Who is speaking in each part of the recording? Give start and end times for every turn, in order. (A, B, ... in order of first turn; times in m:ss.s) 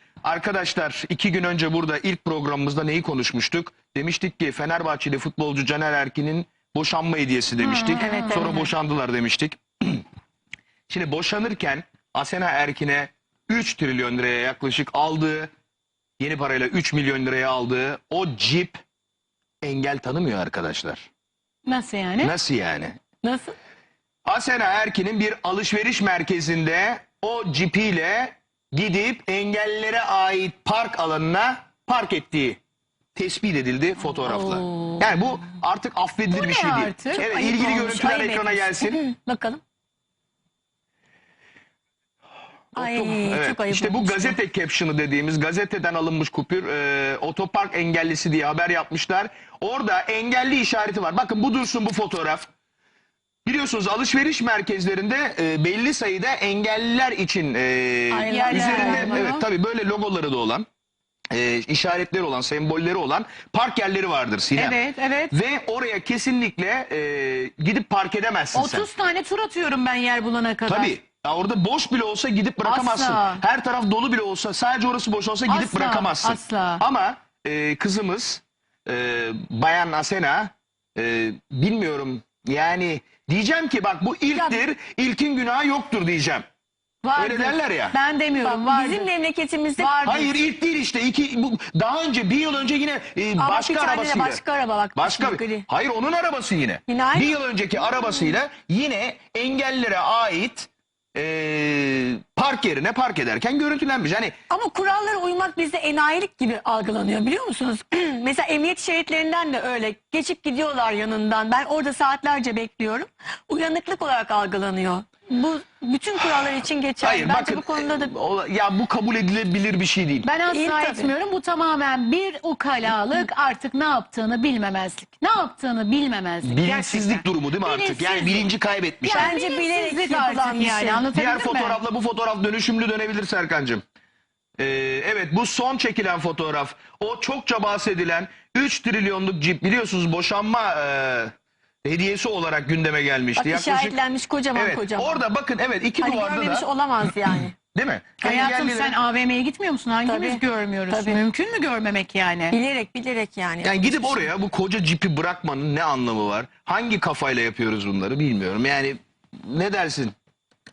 0:00.2-0:10.0 A
0:07.6-0:08.4 B
0:08.0-0:08.7 C
0:10.9-0:15.5 A
0:16.2-0:18.8 A
0:19.6-0:21.1 A
0:21.7-0:22.3 B
0:22.2-0:23.0 A
0:23.2-0:23.6 C
0:24.2-0:32.6 A
0:33.2-0:39.0 A
0:34.0-0:35.2 C
0:36.3-0:37.3 B
0:37.2-0:39.6 C
0:42.7-0:52.5 A
0:42.7-0:44.4 C
0:53.4-1:00.7 A
0:58.1-0:59.3 C
0:58.3-0:59.4 B
1:01.3-1:04.8 A
1:04.5-1:05.3 B
1:05.3-1:08.9 A
1:08.5-1:11.0 B
1:10.7-1:26.4 A
1:12.6-1:13.4 B
1:15.5-1:16.8 B
1:24.3-1:24.6 C
1:27.0-1:29.1 B
1:27.2-1:28.0 A
1:28.4-1:30.0 C
1:29.8-1:30.3 B
1:30.0-1:34.4 A
1:33.4-1:35.6 C
1:35.0-1:44.4 A
1:36.9-1:38.4 C
1:44.5-1:58.1 C
1:57.0-2:00.3 A
2:00.2-2:08.5 B
2:00.5-2:01.1 C
2:06.4-2:09.3 A
2:09.0-2:11.8 B
2:09.1-2:11.0 C
2:11.1-2:13.8 A
2:14.6-2:24.0 A
2:23.4-2:25.2 C
2:24.5-2:26.7 A
2:26.0-2:27.5 C
2:27.7-2:29.0 A
2:28.2-2:32.6 B
2:30.0-2:31.2 C
2:32.5-2:34.3 C
2:33.6-2:40.1 A